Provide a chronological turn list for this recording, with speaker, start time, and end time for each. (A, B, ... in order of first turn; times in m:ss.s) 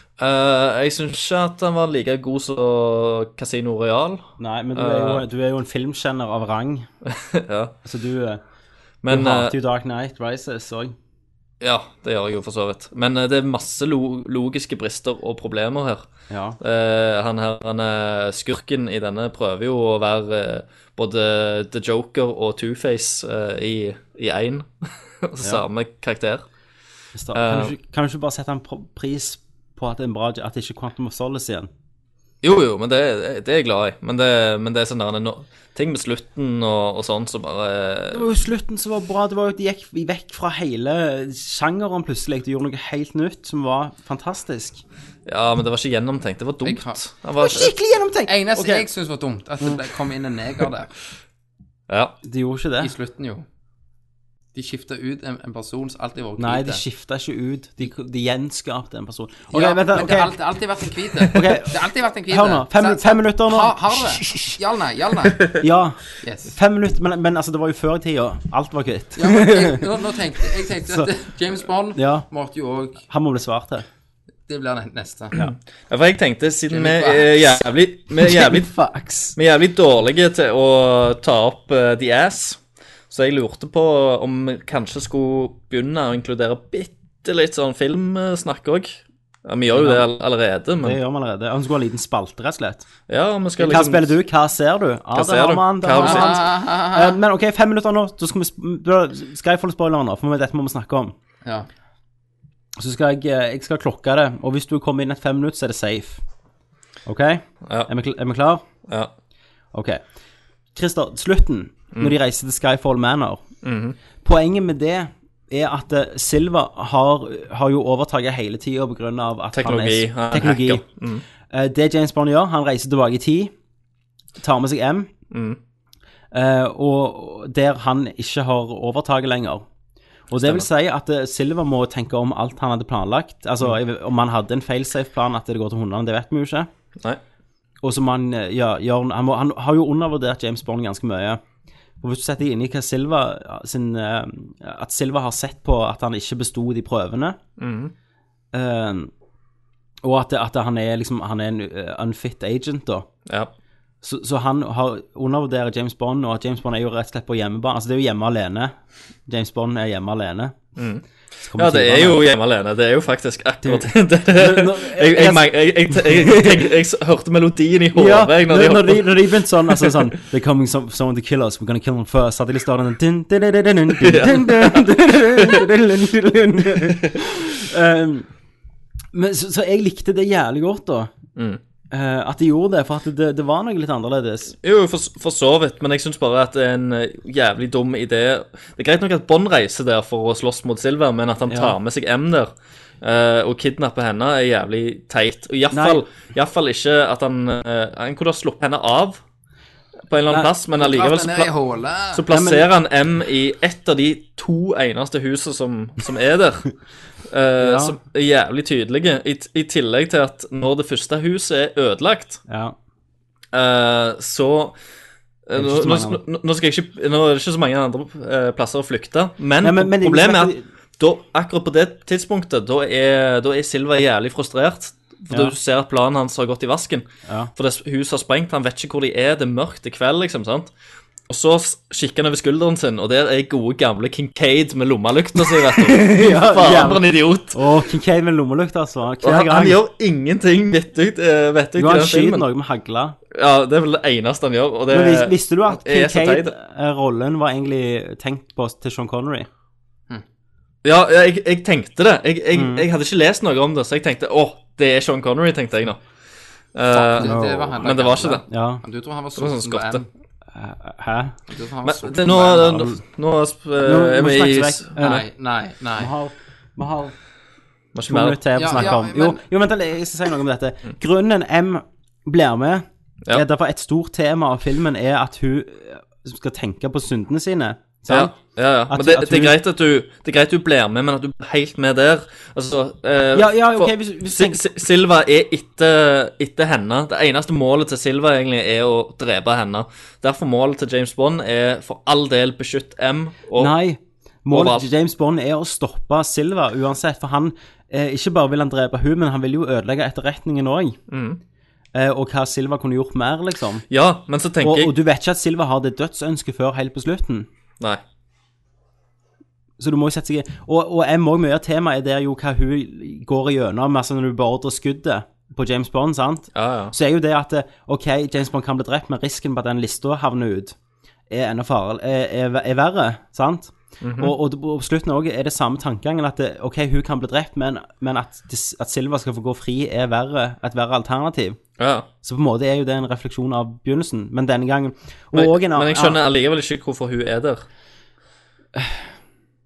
0:00.2-0:05.2 A
0:04.4-0:06.9 B
0:07.1-0:07.7 A
0:07.8-0:08.4 B
0:09.0-0:09.6 A
0:09.1-0:11.0 B
0:11.6-0:16.1 A
0:16.3-0:16.6 B
0:16.6-0:26.4 A
0:27.2-0:31.7 B
0:27.3-0:27.8 A
0:32.4-0:38.2 A
0:38.1-0:44.8 B
0:45.3-0:47.7 A
0:46.6-0:47.0 C
0:47.4-0:48.9 B
0:48.3-0:50.9 C
0:51.9-0:52.2 A
0:52.2-0:52.9 B
0:52.8-0:53.5 C
0:54.5-0:56.8 C
0:56.4-1:00.4 B
0:59.5-1:05.6 C
1:01.3-1:04.6 B
1:05.5-1:09.9 B
1:06.2-1:06.6 C
1:09.2-1:13.0 C
1:11.9-1:12.3 B
1:13.1-1:13.9 B
1:14.5-1:15.4 C
1:15.4-1:18.7 A
1:16.7-1:17.3 C
1:18.2-1:19.4 B
1:19.4-1:31.0 A
1:29.7-1:30.1 B
1:30.8-1:32.9 B
1:33.1-1:34.2 A
1:33.6-1:41.2 B
1:35.1-1:36.4 A
1:36.0-1:37.2 C
1:42.8-1:46.2 B
1:47.1-1:48.6 B
1:49.7-1:50.0 B
1:50.7-1:53.4 B
1:53.6-1:54.0 A
1:54.2-2:00.8 B
1:59.5-2:01.2 A
2:01.5-2:03.5 B
2:04.4-2:05.1 B
2:05.3-2:05.6 A
2:06.3-2:09.7 B
2:10.3-2:16.7 B
2:10.4-2:10.7 A
2:17.8-2:21.4 B
2:22.0-2:27.4 B
2:27.6-2:27.9 A
2:28.5-2:29.1 B
2:30.0-2:33.1 B
2:34.0-2:38.7 B
2:39.3-2:40.6 B
2:40.8-2:41.0 A
2:41.4-2:42.2 B
2:41.6-2:50.1 A
2:43.6-2:46.7 B
2:47.9-2:58.3 B
2:54.0-2:55.7 A
2:59.1-3:01.1 B
3:01.4-3:01.6 A
3:01.9-3:04.6 B
3:04.6-3:12.5 A
3:11.5-3:11.8 B
3:13.0-3:19.2 A
3:15.7-3:16.0 B
3:20.1-3:21.5 A
3:20.8-3:22.2 C
3:22.1-3:26.7 A
3:22.3-3:22.7 B
3:27.3-3:32.4 A
3:27.6-3:28.0 B
3:32.5-3:32.8 B
3:33.5-3:34.8 A
3:35.5-3:50.7 A
3:35.6-3:36.2 B
3:39.6-3:40.7 B
3:45.3-3:45.6 B
3:47.3-3:47.5 B
3:51.3-3:57.6 A
3:55.6-3:59.8 B
3:59.2-4:02.5 A
4:01.8-4:03.2 B
4:03.3-4:06.6 A
4:04.9-4:09.5 B
4:10.8-4:16.0 A
4:12.5-4:12.9 B
4:16.7-4:18.4 A
4:16.9-4:20.1 C
4:17.2-4:17.9 B
4:18.4-4:18.8 B
4:19.4-4:20.0 A
4:20.5-4:21.4 B
4:21.5-4:22.8 C
4:21.8-4:25.2 A
4:22.4-4:23.0 B
4:23.8-4:25.3 B
4:25.0-4:26.1 C
4:26.0-4:27.2 B
4:28.0-4:28.4 A
4:28.1-4:38.4 B
4:28.6-4:29.4 C
4:38.1-4:53.7 A
4:38.9-4:39.6 B
4:43.3-4:44.6 B
4:53.6-5:01.0 B
4:54.5-4:54.9 A
5:01.1-5:01.4 A
5:01.9-5:03.9 B
5:03.9-5:05.0 A
5:04.6-5:07.5 B
5:09.8-5:20.8 B
5:16.5-5:17.0 A
5:21.3-5:31.6 B
5:24.0-5:24.4 A
5:31.8-5:32.1 A
5:32.2-5:36.2 B
5:35.3-5:37.6 A
5:38.7-5:39.1 B